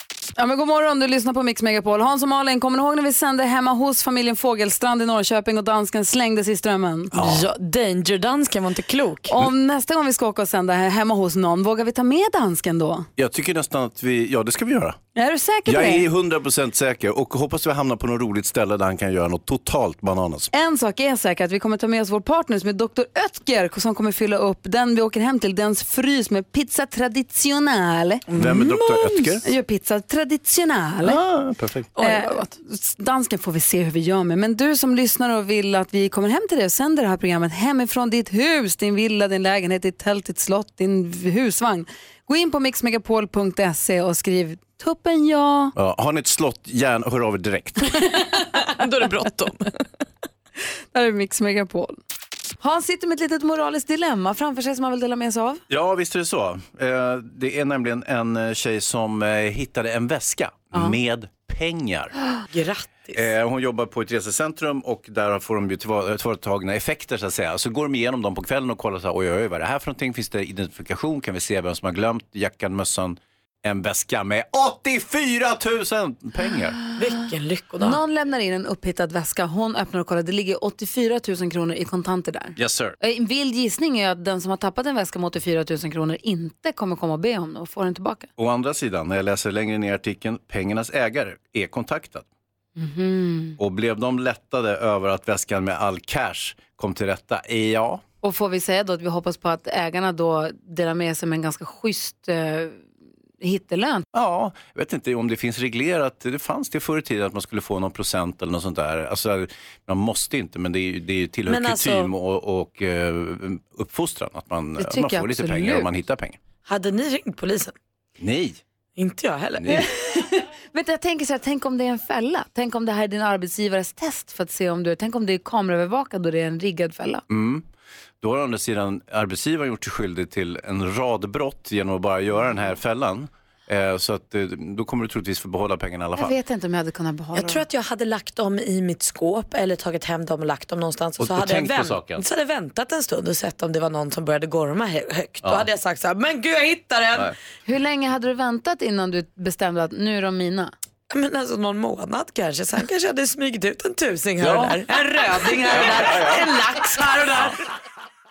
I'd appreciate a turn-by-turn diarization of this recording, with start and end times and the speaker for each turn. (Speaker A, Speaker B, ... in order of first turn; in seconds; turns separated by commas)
Speaker A: 0.4-7.1, Speaker B: 7.1-7.5, Speaker C: 7.2-9.3, Speaker A: 9.3-13.1, Speaker B: 13.2-15.0, Speaker A: 15.2-16.1, Speaker B: 15.7-20.5, Speaker A: 20.5-28.2, Speaker C: 28.3-29.4, Speaker B: 28.4-29.5, Speaker A: 29.4-31.2, Speaker B: 31.0-31.9, Speaker C: 32.0-32.4, Speaker A: 32.0-45.7, Speaker B: 45.8-48.0, Speaker C: 48.1-49.7, Speaker A: 50.9-52.0, Speaker A: 52.6-55.6, Speaker B: 55.7-62.1, Speaker C: 62.5-63.2, Speaker B: 63.1-76.8, Speaker C: 77.0-78.0, Speaker A: 77.8-88.3, Speaker B: 82.6-83.0, Speaker B: 88.4-92.3, Speaker A: 92.8-93.6, Speaker B: 93.6-98.0, Speaker A: 98.2-102.8, Speaker A: 103.4-104.0, Speaker B: 104.1-116.4, Speaker C: 111.5-112.1, Speaker A: 114.8-115.9, Speaker C: 116.7-117.7, Speaker B: 118.2-118.6, Speaker C: 119.0-119.9, Speaker B: 119.6-119.8, Speaker A: 119.7-127.2, Speaker B: 127.3-127.7, Speaker B: 128.2-136.3, Speaker A: 136.2-137.6, Speaker C: 137.3-147.3, Speaker B: 141.2-142.2, Speaker A: 147.7-150.7, Speaker C: 151.1-157.6, Speaker B: 154.4-154.8, Speaker A: 154.9-156.1, Speaker B: 155.6-156.5